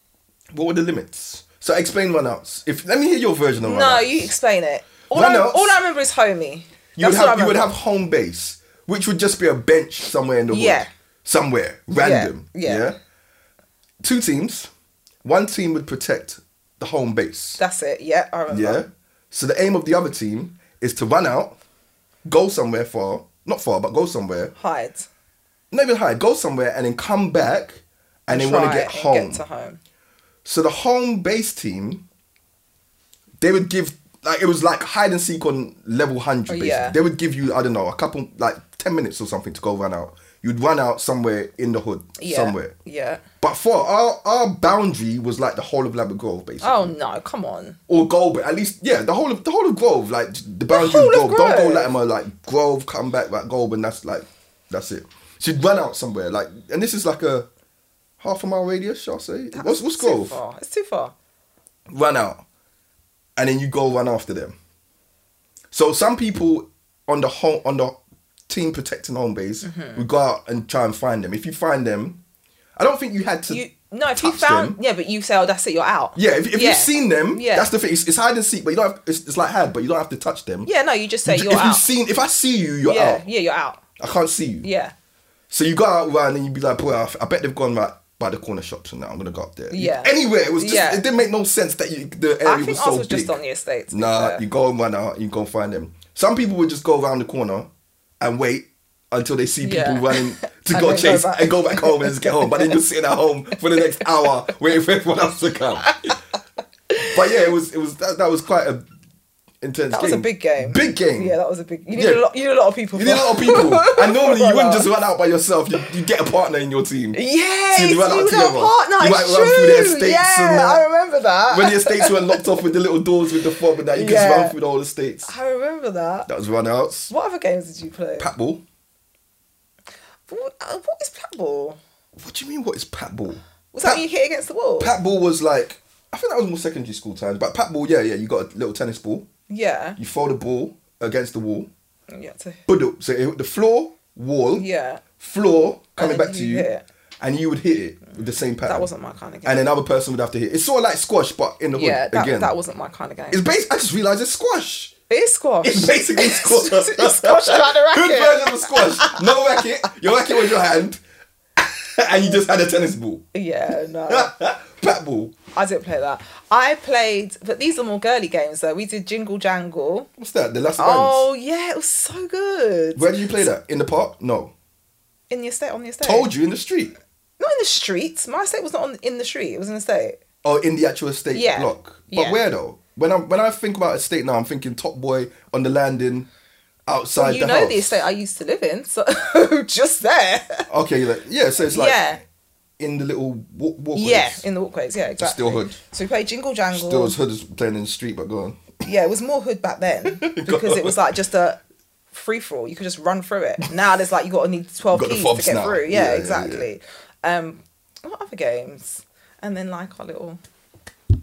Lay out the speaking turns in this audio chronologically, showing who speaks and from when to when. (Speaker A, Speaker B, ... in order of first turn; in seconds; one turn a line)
Speaker A: 0.5-4.3
Speaker B: 3.6-7.7
Speaker A: 5.1-5.8
Speaker A: 7.0-12.9
Speaker B: 10.5-10.9
Speaker B: 12.0-12.9
Speaker A: 14.0-14.7
Speaker A: 15.2-17.6
Speaker B: 17.6-18.8
Speaker A: 18.5-21.6
Speaker A: 22.2-24.5
Speaker B: 24.6-25.1
Speaker A: 25.7-29.4
Speaker B: 28.3-29.8
Speaker A: 30.4-32.0
Speaker A: 33.4-42.7
Speaker B: 36.5-37.0
Speaker B: 42.2-43.2
Speaker A: 43.4-46.9
Speaker B: 46.6-47.8
Speaker A: 47.9-57.5
Speaker B: 50.7-51.9
Speaker A: 58.2-60.4
Speaker B: 59.5-61.1
Speaker A: 61.9-62.4
Speaker A: 63.4-64.5
Speaker A: 65.7-67.9
Speaker A: 68.5-72.2
Speaker B: 69.6-70.0
Speaker A: 72.8-73.6
Speaker B: 73.5-77.7
Speaker A: 74.1-74.8
Speaker A: 76.2-80.7
Speaker B: 80.6-81.9
Speaker A: 81.2-83.2
Speaker B: 82.8-83.8
Speaker A: 84.0-84.7
Speaker B: 84.6-84.9
Speaker A: 85.5-93.4
Speaker B: 89.7-91.1
Speaker B: 92.4-94.4
Speaker A: 93.9-97.7
Speaker A: 98.2-105.9
Speaker B: 99.6-102.8
Speaker A: 107.0-108.8
Speaker A: 109.6-111.4
Speaker B: 109.9-114.9
Speaker A: 111.9-112.2
Speaker A: 112.9-117.2
Speaker B: 117.1-122.5
Speaker A: 117.7-120.8
Speaker A: 121.5-125.3
Speaker B: 123.8-124.5
Speaker B: 125.2-126.3
Speaker A: 126.2-127.1
Speaker B: 127.1-128.3
Speaker A: 128.2-128.6
Speaker B: 130.3-131.8
Speaker A: 132.2-134.0
Speaker B: 133.7-134.9
Speaker A: 134.8-139.2
Speaker B: 139.5-140.0
Speaker A: 140.0-141.7
Speaker B: 142.1-142.6
Speaker A: 142.7-144.7
Speaker B: 144.5-145.0
Speaker A: 145.2-146.7
Speaker B: 146.0-146.8
Speaker A: 147.2-148.9
Speaker B: 148.7-149.6
Speaker A: 149.4-152.6
Speaker B: 151.7-153.4
Speaker A: 153.3-154.9
Speaker B: 155.1-159.4
Speaker A: 155.6-161.0
Speaker A: 161.6-163.2
Speaker B: 163.3-164.3
Speaker A: 164.1-165.3
Speaker B: 165.5-170.1
Speaker A: 170.2-171.3
Speaker B: 170.8-173.5
Speaker A: 172.9-174.5
Speaker B: 175.3-176.3
Speaker A: 176.0-177.0
Speaker B: 177.4-180.2
Speaker A: 180.4-186.3
Speaker B: 181.3-182.4
Speaker A: 186.9-188.0
Speaker B: 187.1-190.7
Speaker A: 190.7-192.2
Speaker B: 191.6-192.2
Speaker A: 192.8-194.4
Speaker B: 193.9-197.2
Speaker A: 195.2-195.8
Speaker A: 196.7-198.6
Speaker B: 198.8-201.6
Speaker A: 200.1-201.0
Speaker B: 202.1-210.4
Speaker A: 204.9-206.7